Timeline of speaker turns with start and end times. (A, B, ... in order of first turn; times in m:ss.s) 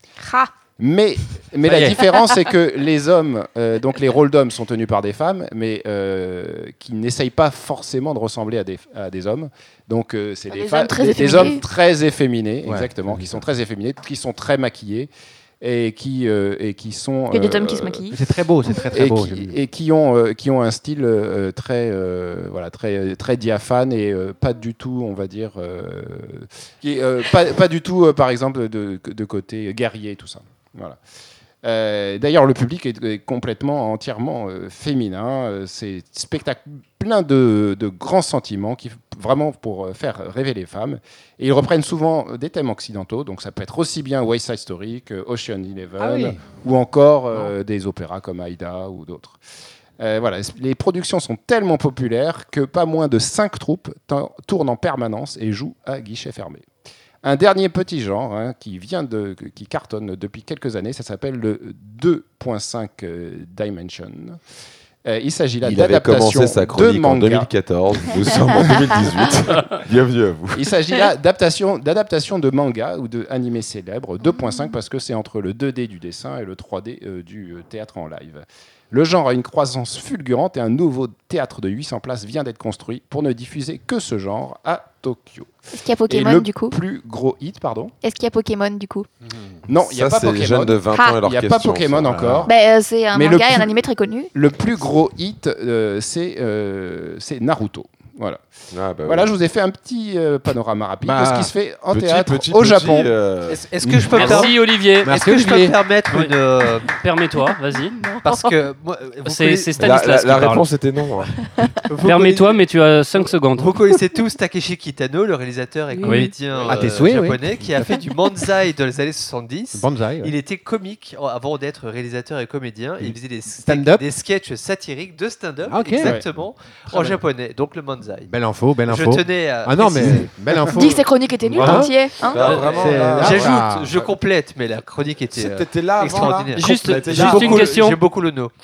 0:00.2-0:00.5 A
0:00.8-0:15.1 B
0:01.6-0:02.0 C
0:10.5-0:11.6 A
0:12.6-0:13.4 C
0:15.6-0:18.0 B
0:17.3-0:18.2 A
0:18.1-0:19.6 C
0:18.9-0:31.0 B
0:31.6-0:49.4 B
0:46.0-0:46.4 C
0:50.0-0:56.6 B
0:57.2-1:04.4 B
1:05.0-1:07.5 B
1:05.6-1:10.7 D
1:08.6-1:09.2 B
1:10.5-1:25.5 B
1:14.3-1:14.6 A
1:25.7-1:26.8 A
1:26.1-1:27.9 B
1:28.0-1:29.1 A
1:29.7-1:32.5 B
1:29.9-1:32.4 D
1:30.9-1:31.2 A
1:32.1-1:32.5 C
1:32.5-1:34.3 A
1:33.1-1:33.8 B
1:34.3-1:38.4 B
1:38.7-1:39.3 D
1:39.0-1:43.1 B
1:41.0-1:41.5 C
1:41.9-1:43.6 D
1:43.5-1:46.9 E
1:43.8-1:44.4 C
1:44.1-1:45.1 F
1:45.0-1:45.8 C
1:46.9-1:48.0 F
1:48.0-1:48.5 A
1:48.2-1:49.9 E
1:49.2-1:50.6 F
1:49.8-1:51.3 D
1:51.6-1:51.8 A
1:51.9-1:52.6 E
1:52.0-1:53.7 F
1:53.2-2:08.3 E
1:56.0-1:56.3 A
1:56.0-1:56.3 F
1:56.6-1:58.0 C
1:59.7-2:00.3 C
2:03.0-2:04.0 C
2:05.7-2:06.2 C
2:06.9-2:07.2 C
2:08.3-2:11.0 C
2:08.8-2:10.3 E
2:10.7-2:12.6 A
2:11.5-2:11.9 C
2:11.7-2:13.6 D
2:12.4-2:18.5 E
2:12.6-2:13.9 C
2:15.3-2:17.8 D
2:16.5-2:18.0 F